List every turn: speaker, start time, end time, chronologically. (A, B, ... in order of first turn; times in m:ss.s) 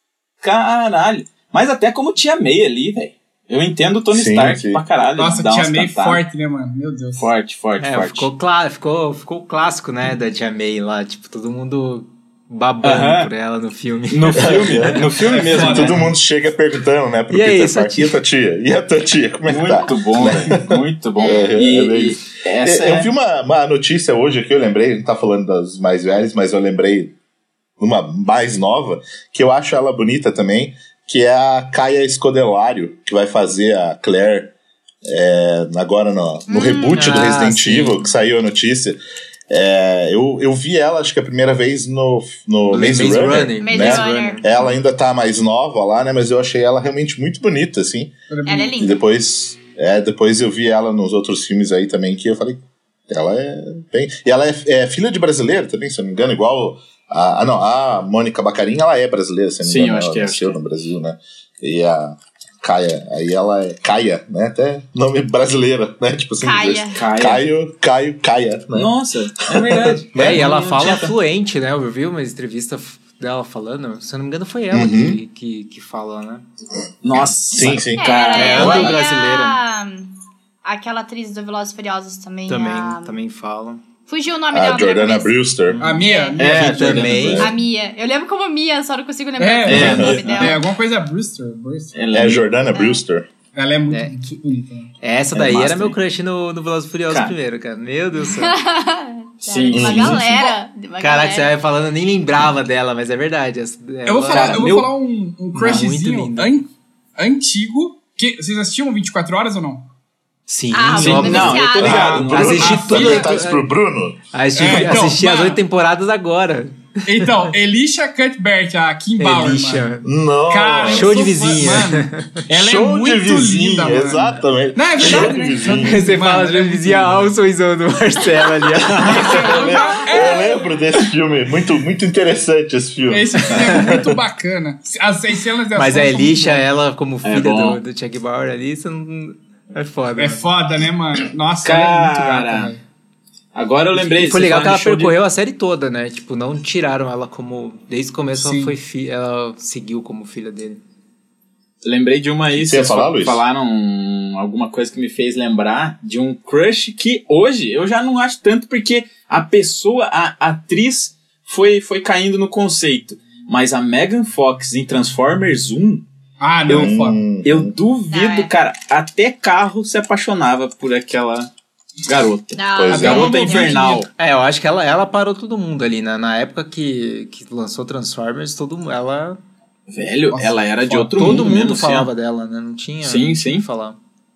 0:00.4-0:06.2 A
0:04.1-0:04.8 B
0:05.2-0:07.3 C
0:07.2-0:08.3 A
0:07.8-0:15.0 D
0:12.8-0:13.3 A
0:14.1-0:16.0 A
0:14.4-0:27.1 B
0:15.4-0:16.1 C
0:17.3-0:18.2 D
0:19.4-0:23.1 A
0:21.2-0:21.5 E
0:27.8-0:48.1 B
0:36.5-0:37.2 E
0:36.9-0:38.0 D
0:42.7-0:44.5 D
0:43.6-0:44.5 E
0:48.3-0:48.8 C
0:48.4-0:49.0 E
0:48.8-1:08.9 B
0:59.6-1:00.6 A
1:06.4-1:07.0 E
1:07.0-1:07.4 A
1:08.7-1:11.1 A
1:09.5-1:10.9 B
1:10.1-1:16.4 D
1:14.7-1:15.2 B
1:17.0-1:19.0 A
1:17.5-1:18.9 B
1:18.0-1:23.2 E
1:18.3-1:19.6 D
1:22.5-1:23.8 D
1:24.1-1:25.4 E
1:24.5-1:25.8 B
1:25.7-1:27.5 D
1:25.8-1:27.2 C
1:26.0-1:26.4 E
1:26.4-1:27.4 A
1:26.9-1:27.5 B
1:27.4-1:30.6 E
1:29.4-1:32.0 C
1:29.6-1:30.6 A
1:29.7-1:30.3 B
1:31.9-1:32.5 A
1:32.1-1:33.3 B
1:32.7-1:33.0 E
1:33.5-1:34.9 C
1:33.9-1:34.1 D
1:35.0-1:38.6 D
1:35.3-1:35.9 B
1:38.2-1:41.5 E
1:39.4-1:40.2 A
1:39.7-1:40.4 B
1:41.0-1:44.9 D
1:44.0-1:49.9 C
1:44.3-1:44.8 A
1:45.5-1:46.6 D
1:50.5-1:51.7 D
1:50.7-1:52.3 E
1:50.9-1:52.8 A
1:51.4-1:54.2 B
1:51.9-1:53.3 C
1:52.3-1:53.7 D
1:54.3-1:57.4 D
1:54.5-1:55.6 C
1:57.0-1:59.9 C
1:59.2-2:00.1 D
2:00.0-2:01.1 B
2:00.4-2:07.3 C
2:00.8-2:02.5 D
2:02.5-2:06.0 B
2:05.7-2:09.7 D
2:09.0-2:10.7 C
2:09.0-2:14.2 B
2:13.1-2:16.7 C
2:15.7-2:20.4 D
2:17.2-2:17.8 A
2:20.2-2:22.8 C
2:21.6-2:22.7 A
2:23.5-2:25.1 A
2:24.0-2:30.8 D
2:28.4-2:28.7 C
2:31.8-2:46.0 A
2:32.5-2:33.4 B
2:46.4-2:47.3 C
2:46.7-2:47.7 B
2:47.4-2:51.5 A
2:48.1-2:48.5 E
2:52.0-2:54.1 A
2:52.5-2:54.0 E
2:52.8-2:53.3 B
2:52.9-2:54.0 C
2:54.1-2:59.4 D
2:59.9-3:02.1 A
3:00.3-3:00.6 C
3:00.9-3:04.0 D
3:03.0-3:03.6 A